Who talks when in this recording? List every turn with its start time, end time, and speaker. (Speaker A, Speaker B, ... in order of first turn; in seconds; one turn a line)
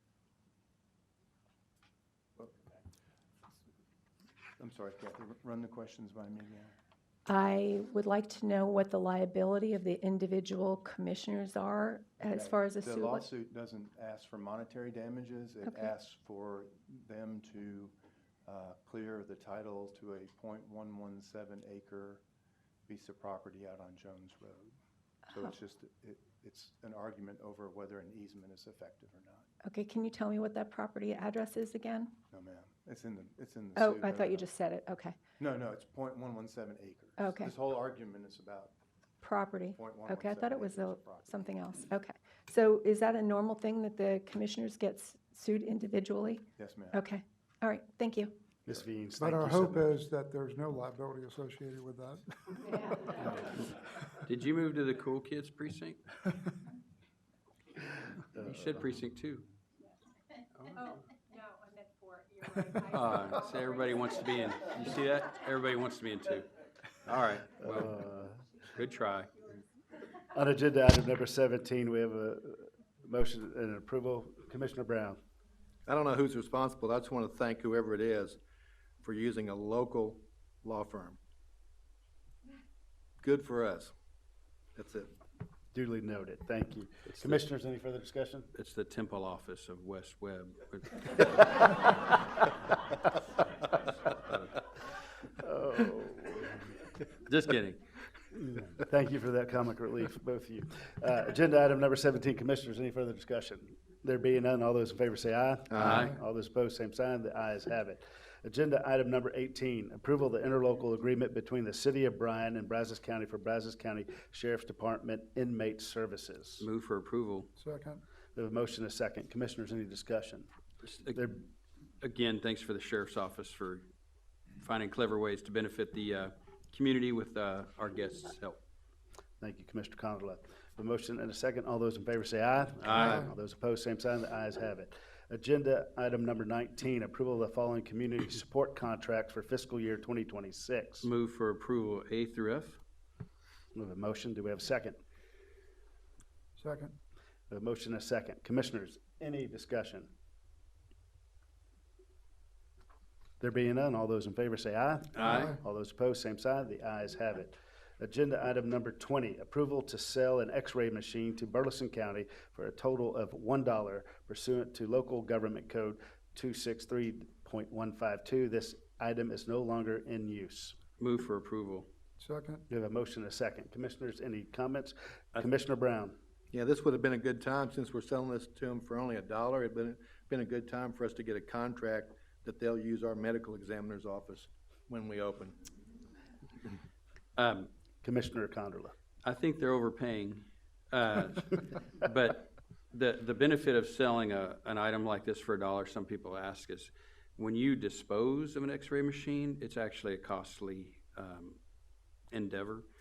Speaker A: 2.4-2.8
Speaker A: 4.6-6.7
Speaker B: 7.3-13.3
Speaker A: 12.2-17.9
Speaker B: 15.6-15.9
Speaker A: 18.4-22.2
Speaker A: 22.9-24.8
Speaker A: 25.3-29.5
Speaker B: 29.6-32.1
Speaker A: 32.3-34.5
Speaker B: 33.8-35.2
Speaker A: 35.4-38.7
Speaker B: 37.2-37.5
Speaker B: 39.2-48.4
Speaker A: 39.7-41.6
Speaker A: 46.6-47.1
Speaker C: 48.6-49.9
Speaker D: 49.2-53.2
Speaker E: 54.2-56.0
Speaker E: 58.4-59.5
Speaker E: 60.6-61.0
Speaker F: 61.4-64.8
Speaker E: 62.8-66.5
Speaker E: 67.0-68.0
Speaker C: 67.6-68.3
Speaker E: 68.7-69.3
Speaker C: 70.3-75.2
Speaker G: 75.8-78.4
Speaker G: 79.0-81.2
Speaker G: 83.2-83.9
Speaker G: 84.7-85.1
Speaker C: 85.7-88.5
Speaker E: 87.1-87.4
Speaker E: 88.5-91.6
Speaker E: 94.1-94.6
Speaker C: 95.4-96.6
Speaker E: 97.2-97.8
Speaker C: 98.3-116.7
Speaker G: 105.7-106.0
Speaker E: 105.8-106.1
Speaker E: 116.6-117.5
Speaker D: 117.5-118.0
Speaker C: 118.3-120.5
Speaker E: 120.8-121.2
Speaker C: 121.1-121.4
Speaker E: 122.0-123.8
Speaker E: 124.6-128.6
Speaker C: 129.4-141.1
Speaker E: 132.8-133.3
Speaker E: 141.0-142.8
Speaker C: 143.7-145.0
Speaker D: 146.6-146.9
Speaker C: 147.5-150.1
Speaker C: 153.4-170.8
Speaker E: 155.1-155.5
Speaker D: 155.2-155.6
Speaker E: 171.0-171.9
Speaker D: 172.2-172.6
Speaker C: 172.7-176.2
Speaker G: 176.5-185.6
Speaker E: 187.3-187.7
Speaker C: 188.0-188.9
Speaker E: 189.2-201.6
Speaker E: 202.3-202.8